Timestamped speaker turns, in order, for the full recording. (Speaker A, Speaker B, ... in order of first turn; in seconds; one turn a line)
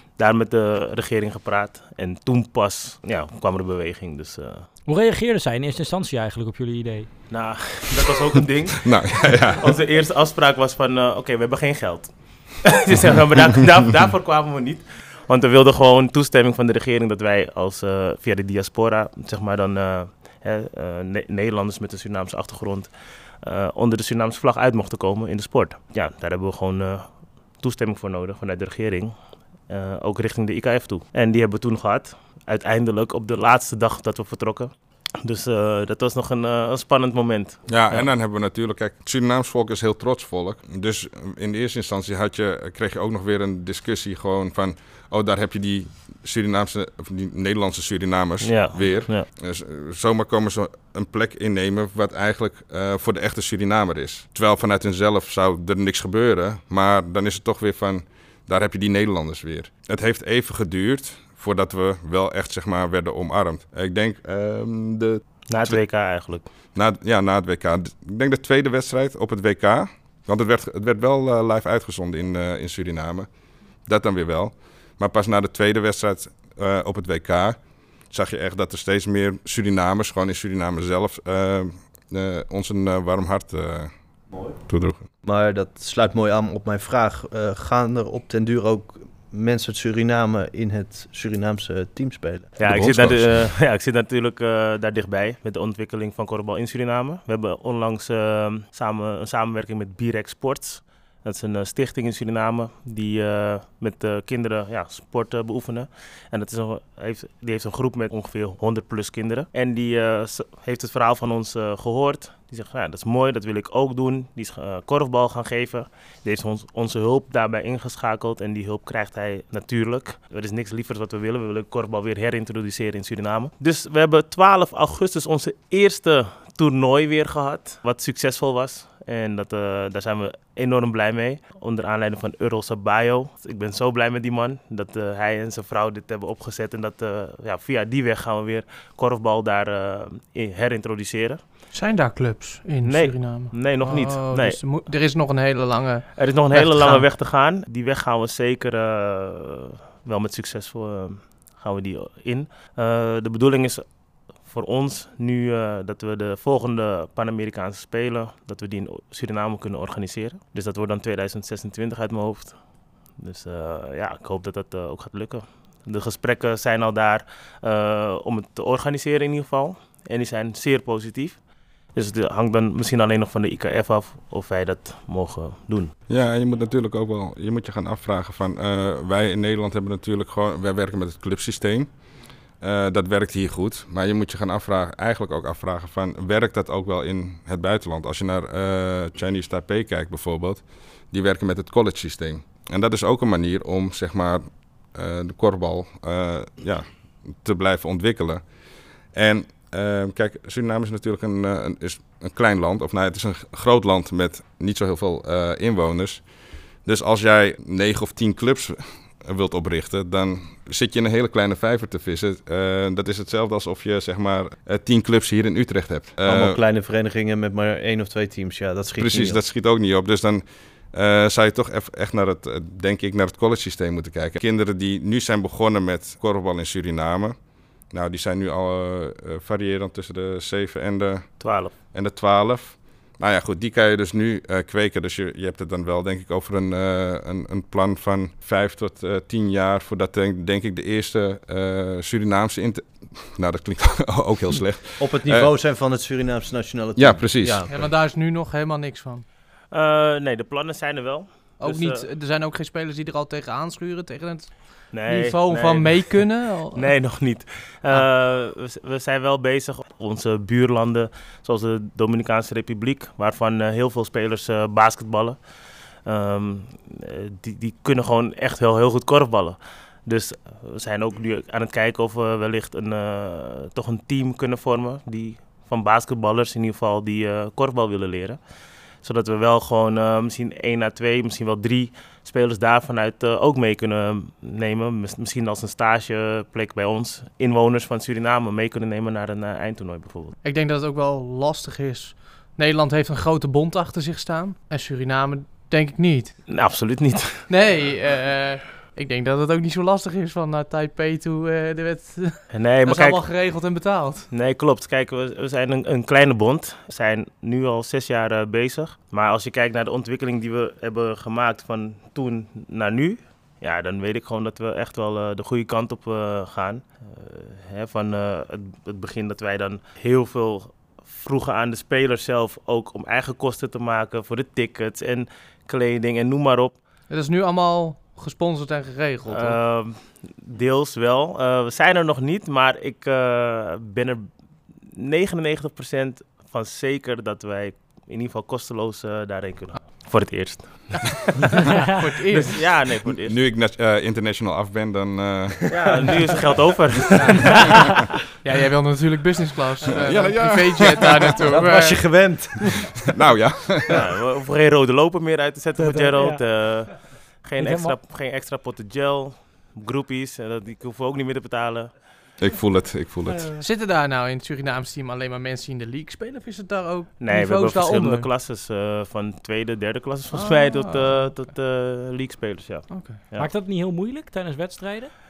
Speaker A: 0.2-4.7
Speaker B: 4.9-7.1
Speaker A: 7.3-38.1
Speaker C: 8.8-9.7
Speaker C: 37.7-65.8
Speaker A: 48.4-49.3
Speaker A: 65.5-66.5
Speaker C: 66.8-73.3
Speaker C: 73.9-85.0
Speaker D: 85.2-92.7
Speaker A: 92.6-141.4
Speaker C: 92.7-93.4
Speaker E: 141.7-147.1
Speaker A: 142.8-144.8
Speaker A: 146.2-162.7
Speaker A: 163.2-171.4
Speaker A: 171.9-175.9
Speaker C: 176.1-198.5
Speaker C: 199.1-216.6
Speaker D: 216.2-219.4
Speaker C: 219.0-245.5
Speaker A: 231.4-231.7
Speaker D: 245.0-247.9
Speaker C: 247.0-247.6
Speaker E: 247.7-249.2
Speaker A: 249.7-252.0
Speaker E: 251.6-256.9
Speaker A: 254.9-265.4
Speaker A: 266.0-278.4
Speaker A: 279.0-290.4
Speaker E: 290.4-296.4
Speaker A: 296.5-297.5
Speaker E: 297.5-304.3
Speaker A: 302.5-303.2
Speaker A: 304.3-326.8
Speaker E: 327.1-329.6
Speaker A: 329.3-334.3
Speaker A: 334.9-341.2
Speaker E: 342.0-342.6
Speaker A: 342.3-343.4
Speaker C: 343.2-346.0
Speaker A: 345.7-347.8
Speaker E: 348.4-352.1
Speaker C: 349.9-351.4
Speaker D: 351.5-353.0
Speaker C: 353.1-354.0
Speaker A: 353.9-361.9
Speaker B: 355.8-357.0
Speaker B: 357.6-358.0
Speaker C: 362.4-363.5
Speaker B: 363.3-363.6
Speaker E: 363.6-368.3
Speaker A: 367.2-373.5
Speaker E: 370.3-371.5
Speaker E: 372.9-373.2
Speaker B: 373.4-375.1